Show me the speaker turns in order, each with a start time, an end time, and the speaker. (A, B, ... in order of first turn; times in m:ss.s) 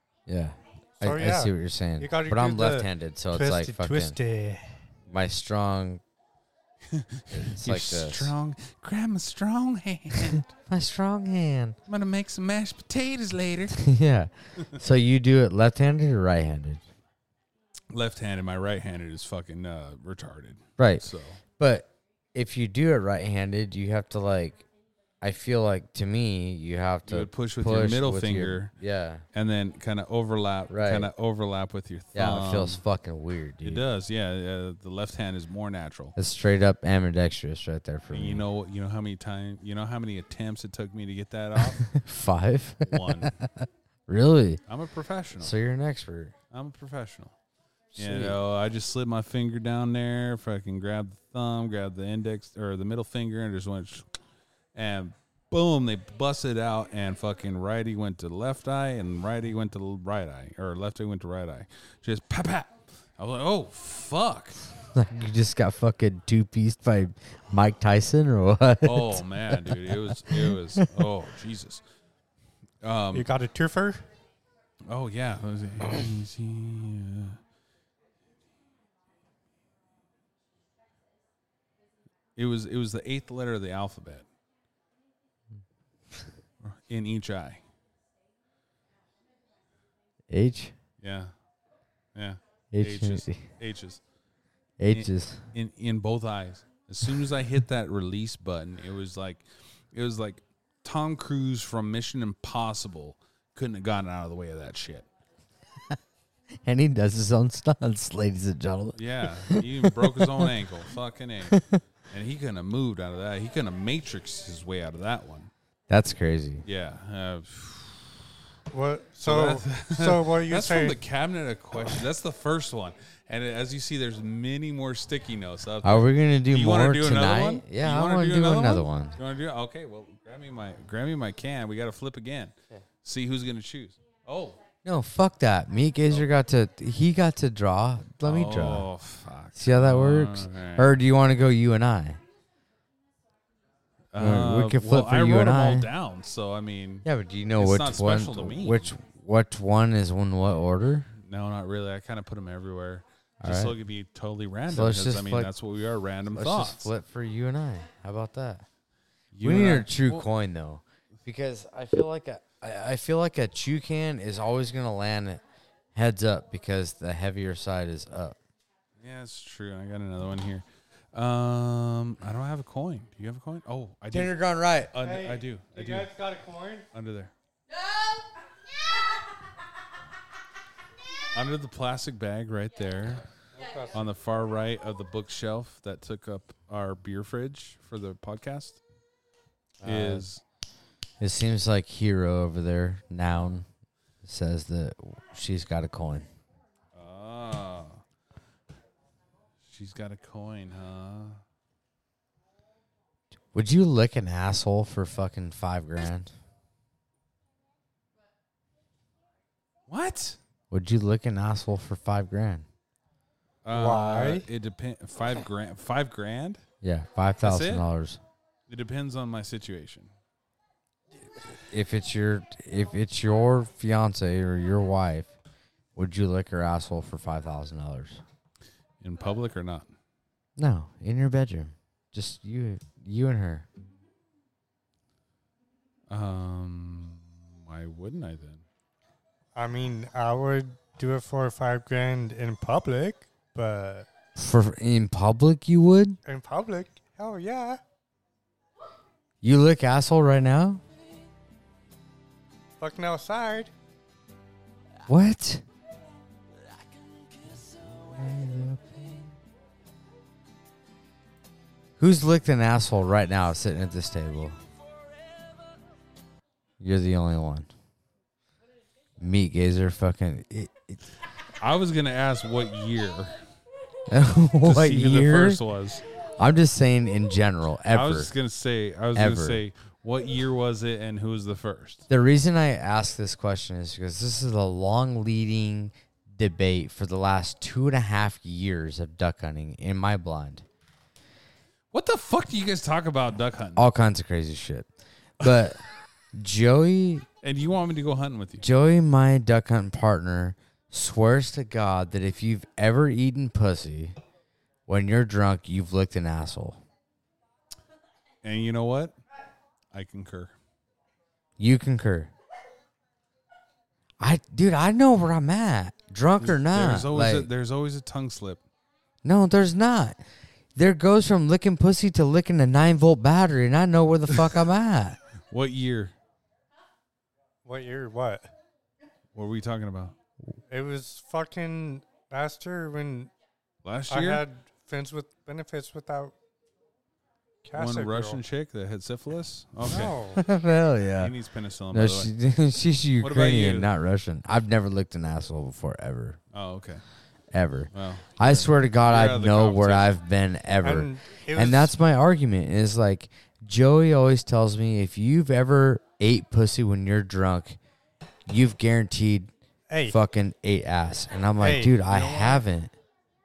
0:00.3-0:04.2 A
0:01.0-0:04.8 B
0:05.1-0:06.0 A
0:06.9-0:10.4 C
0:07.3-0:08.3 A
0:10.6-0:11.8 A
0:11.9-0:13.8 C
0:13.8-0:16.8 A
0:17.9-0:21.4 C
0:20.8-0:21.0 A
0:21.6-0:24.6 A
0:25.2-0:29.2 A
0:27.0-0:28.7 C
0:29.3-0:32.8 C
0:30.7-0:31.1 A
0:32.1-0:33.8 A
0:33.6-0:36.2 C
0:36.2-0:38.4 A
0:38.1-0:41.9 C
0:41.8-0:44.6 A
0:42.8-0:43.4 C
0:44.7-0:45.5 C
0:45.4-0:46.3 A
0:46.5-0:47.3 C
0:47.9-0:48.4 A
0:48.0-0:54.1 C
0:54.7-1:04.6 C
1:04.9-1:11.0 A
1:08.8-1:11.8 C
1:12.8-1:13.3 C
1:13.1-1:14.0 B
1:14.9-1:17.4 C
1:22.4-1:24.3 C
1:26.6-1:27.6 C
1:30.3-1:30.7 A
1:31.0-1:31.3 C
1:32.1-1:34.0 C
1:32.7-1:33.4 A
1:34.8-1:35.4 A
1:34.9-1:45.1 C
1:46.6-1:50.5 A
1:48.9-1:55.5 C
1:51.5-1:51.8 A
1:55.9-1:56.6 A
1:56.6-1:58.2 C
1:58.7-2:01.0 B
1:59.2-2:14.6 C
2:05.8-2:09.2 A
2:14.8-2:18.9 A
2:18.2-2:20.9 C
2:19.5-2:22.2 A
2:24.1-2:28.9 C
2:24.2-2:25.9 A
2:27.0-2:31.1 A
2:31.2-2:36.9 C
2:33.4-2:33.8 A
2:34.7-2:35.5 A
2:36.3-2:38.6 A
2:39.3-2:40.3 C
2:39.4-2:45.4 A
2:45.9-2:48.4 A
2:49.0-2:54.4 C
2:54.1-2:54.9 A
2:54.9-2:56.1 C
2:55.0-2:56.8 B
2:56.9-2:57.3 C
3:01.3-3:03.2 C
3:03.5-3:03.9 B
3:03.9-3:08.8 C
3:09.8-3:10.2 A
3:09.8-3:10.4 C
3:11.2-3:13.7 A
3:14.2-3:16.3 A
3:16.9-3:18.0 C
3:19.7-3:21.4 C
3:23.5-3:26.3 A
3:29.9-3:30.4 C
3:30.7-3:32.6 A
3:33.6-3:36.6 C
3:33.7-3:34.5 B
3:36.8-3:38.2 A
3:37.4-3:37.8 C
3:38.7-3:40.1 C
3:41.7-3:45.3 A
3:45.9-3:48.2 A
3:49.0-3:49.9 C
3:50.6-3:53.7 A
3:56.1-3:58.6 C
3:59.5-4:04.1 B
4:04.3-4:06.2 A
4:06.2-4:07.8 B
4:09.4-4:10.8 A
4:12.8-4:13.7 B
4:15.1-4:15.6 A
4:17.7-4:19.3 A
4:22.0-4:24.6 A
4:26.8-4:27.7 A
4:29.2-4:31.0 A
4:31.6-4:33.4 C
4:34.1-4:35.6 A
4:34.6-4:36.0 C
4:36.4-4:38.3 A
4:37.9-4:42.0 C
4:39.1-4:39.6 A
4:42.1-4:50.6 A
4:51.9-4:53.9 C
4:53.8-4:54.9 A
4:55.4-4:55.8 A
4:56.3-4:57.2 A
4:57.4-4:58.7 C
4:58.6-5:04.2 A
5:04.9-5:06.8 A
5:08.4-5:09.2 C
5:09.9-5:10.5 C
5:11.6-5:12.3 A
5:14.2-5:17.5 A
5:16.4-5:18.6 C
5:19.2-5:20.2 A
5:20.7-5:25.2 A
5:25.5-5:26.1 C
5:27.6-5:28.5 B
5:29.3-5:30.2 C
5:30.7-5:33.3 B
5:33.8-5:34.4 C
5:34.1-5:36.3 B
5:37.6-5:38.4 B
5:37.7-5:40.2 C
5:39.8-5:40.4 B
5:40.3-5:41.3 A
5:41.2-5:42.3 C
5:41.9-5:46.4 A
5:43.2-5:43.9 C
5:46.5-5:47.0 C
5:47.5-5:57.8 A
5:47.9-5:50.2 C
5:50.8-5:51.9 B
5:58.5-5:59.5 A
5:59.9-6:00.2 B
6:00.0-6:02.9 A
6:01.6-6:01.9 B
6:02.1-6:02.6 C